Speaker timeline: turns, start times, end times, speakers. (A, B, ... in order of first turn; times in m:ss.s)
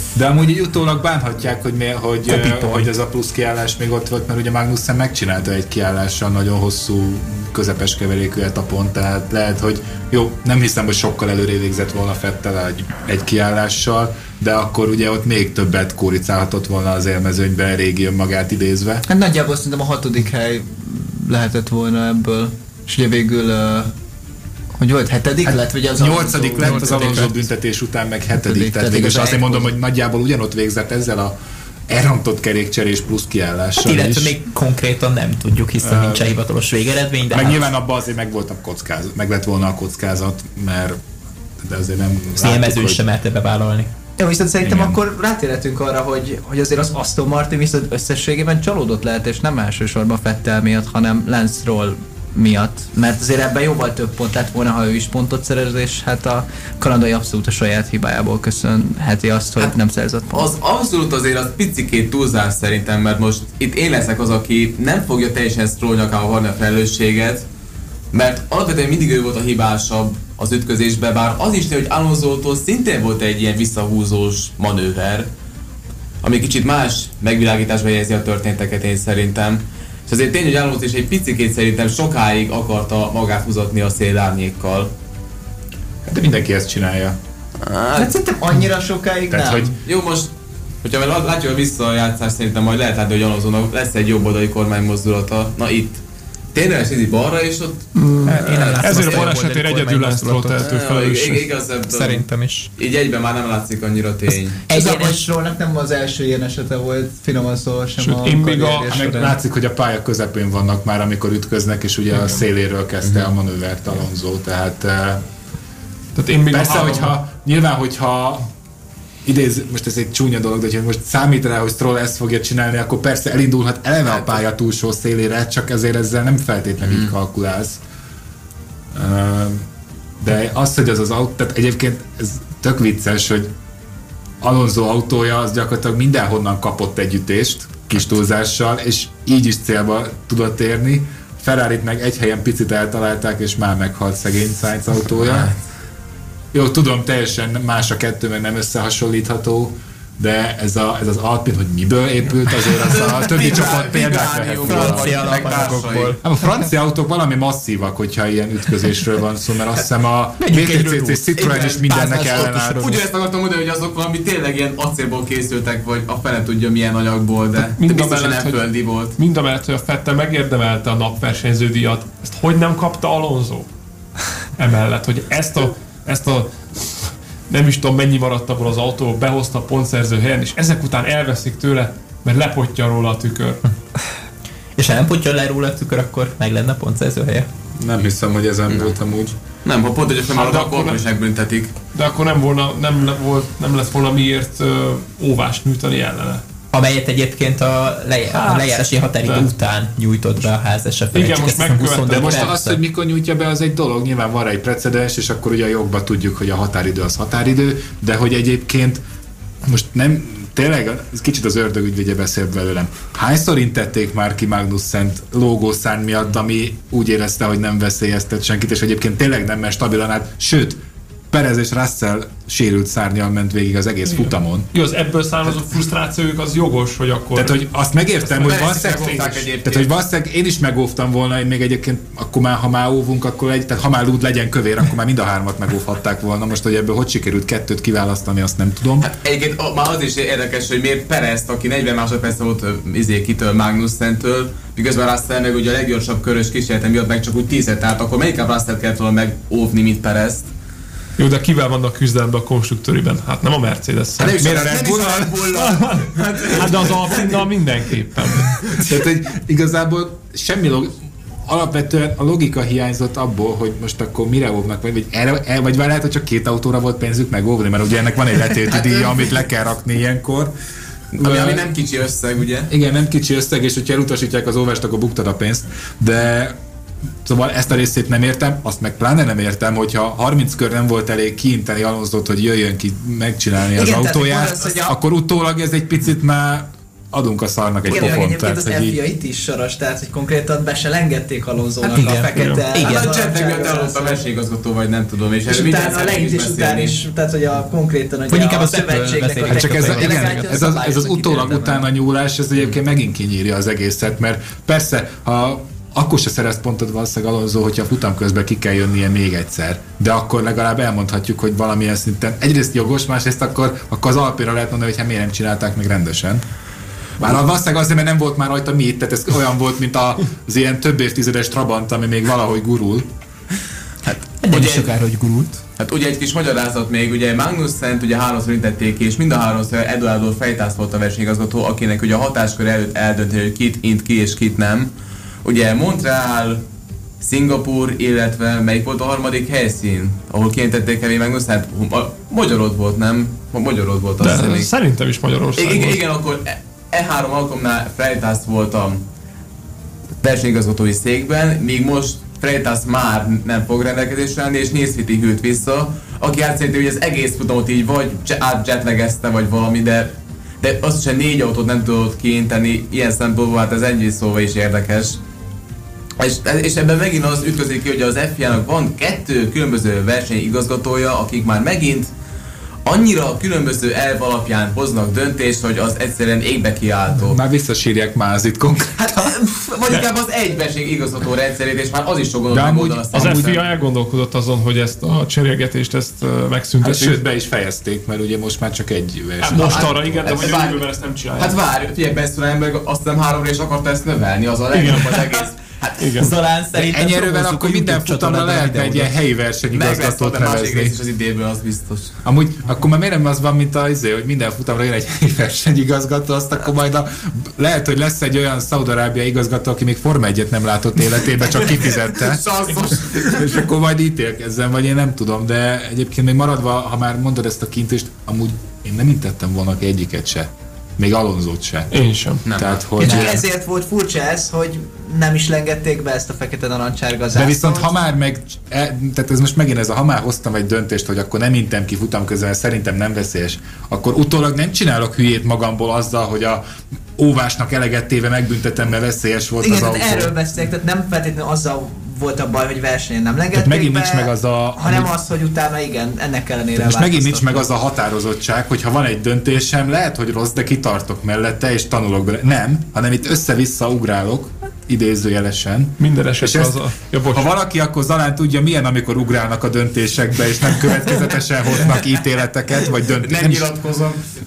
0:00.2-0:19.0 A
0:02.3-0:02.9 B
0:19.1-0:23.9 C
0:24.8-0:27.3 C
0:25.5-0:31.4 A
0:28.4-0:29.7 C
0:31.9-0:34.4 A
0:33.8-0:37.7 B
0:35.8-0:36.4 A
0:37.3-0:41.0 A
0:41.6-0:43.0 A
0:42.4-0:43.9 B
0:44.2-1:00.5 C
0:44.6-0:45.0 A
1:00.3-1:07.5 D
1:08.1-1:15.3 D
1:16.2-1:24.9 D
1:26.1-1:27.2 A
1:27.6-1:28.1 D
1:27.9-1:29.7 C
1:29.3-1:29.8 A
1:29.8-1:30.3 D
1:30.8-1:36.0 D
1:36.5-1:39.3 D
1:38.0-1:41.5 E
1:38.3-1:40.7 B
1:40.6-1:44.6 D
1:41.9-1:42.7 B
1:44.7-1:45.2 B
1:44.7-1:49.3 C
1:48.0-1:49.3 E
1:48.9-1:55.2 A
1:56.2-1:57.2 E
1:56.5-1:58.5 A
1:59.2-2:07.8 A
2:08.9-2:09.6 A
2:10.2-2:13.5 A
2:14.4-2:25.5 A
2:25.2-2:25.6 D
2:26.5-2:43.1 A
2:32.7-2:36.2 D
2:34.6-2:36.2 B
2:40.4-2:41.3 B
2:41.4-2:49.2 D
2:41.9-2:42.5 B
2:47.6-2:53.7 E
2:54.6-3:03.6 E
3:04.8-3:07.5 B
3:07.8-3:09.4 A
3:09.6-3:11.7 D
3:10.2-3:11.0 E
3:11.9-3:16.4 E
3:16.7-3:22.8 B
3:18.3-3:19.5 E
3:21.1-3:22.5 E
3:22.1-3:29.0 A
3:29.6-3:44.7 A
3:44.2-3:47.7 E
3:47.3-3:59.1 A
3:48.3-3:49.3 E
3:48.4-3:49.9 D
3:59.0-4:10.5 D
4:11.2-4:14.6 E
4:14.2-4:17.4 D
4:14.3-4:15.5 A
4:15.5-4:18.6 E
4:18.8-4:30.5 A
4:28.8-4:29.3 D
4:31.1-4:32.7 D
4:31.2-4:31.7 A
4:32.7-4:36.6 A
4:37.2-4:49.0 A
4:43.7-4:45.0 C
4:47.9-4:54.2 C
4:47.9-4:48.2 D
4:51.9-4:53.2 B
4:52.3-4:52.8 E
4:52.8-4:57.0 D
4:55.5-5:01.9 C
4:58.3-5:00.3 B
4:59.5-5:16.4 A
4:59.6-5:00.4 E
5:17.2-5:23.1 A
5:24.1-5:24.9 D
5:24.4-5:25.6 B
5:25.8-5:34.9 D
5:35.4-5:36.6 D
5:37.2-5:44.7 D
5:44.2-5:46.1 E
5:45.6-5:49.0 D
5:50.2-6:05.2 D
6:06.2-6:12.1 D
6:12.8-6:17.4 D
6:17.3-6:19.4 A
6:19.0-6:23.7 D
6:22.5-6:23.6 A
6:23.1-6:27.2 E
6:26.8-6:30.6 A
6:29.4-6:31.6 E
6:29.5-6:30.8 D
6:31.4-6:36.2 D
6:34.7-6:35.2 E
6:36.0-6:36.3 E
6:36.2-6:39.1 B
6:36.7-6:41.0 A
6:39.7-6:42.2 D
6:42.2-6:52.4 A
6:51.6-6:53.6 D
6:53.0-7:01.9 A
7:01.9-7:02.5 E
7:02.5-7:03.1 D
7:02.5-7:03.5 A
7:03.0-7:07.9 C
7:07.3-7:16.6 A
7:17.2-7:20.3 A
7:19.6-7:27.7 C
7:23.5-7:25.1 A
7:26.8-7:43.8 A
7:36.0-7:37.5 E
7:43.2-7:44.3 D